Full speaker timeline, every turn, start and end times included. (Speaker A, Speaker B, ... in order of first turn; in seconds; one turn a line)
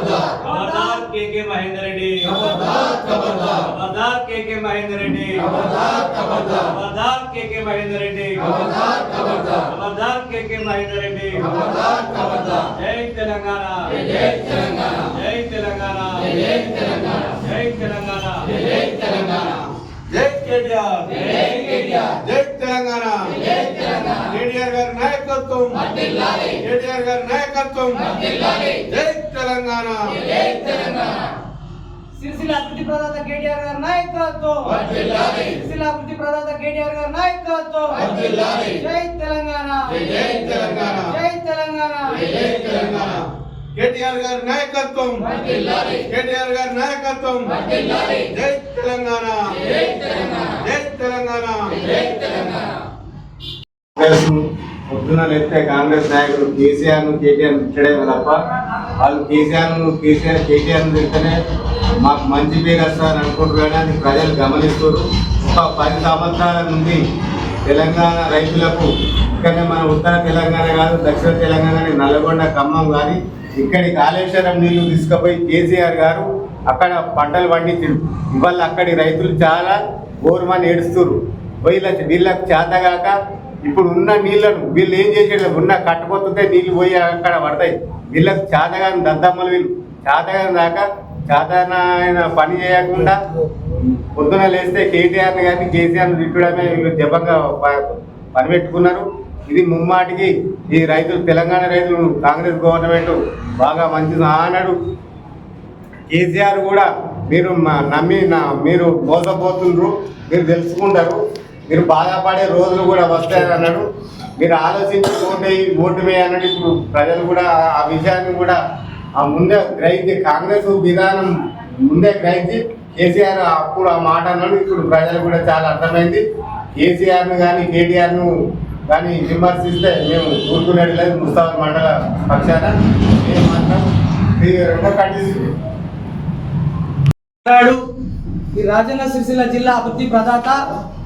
Speaker A: 0.4-18.8
Speaker B: 0.5-0.9
Speaker C: 20.1-31.0
Speaker B: 32.1-42.6
Speaker C: 40.3-41.0
Speaker C: 42.4-52.6
Speaker D: 54.0-58.4
Speaker D: 59.0-61.4
Speaker D: 61.9-67.0
Speaker D: 67.7-104.8
Speaker D: 106.1-113.8
Speaker D: 114.4-118.6
Speaker D: 119.2-121.3
Speaker D: 121.8-126.2
Speaker D: 126.8-128.3
Speaker D: 128.9-133.8
Speaker D: 134.4-135.5
Speaker B: 137.4-137.8
Speaker B: 138.5-140.6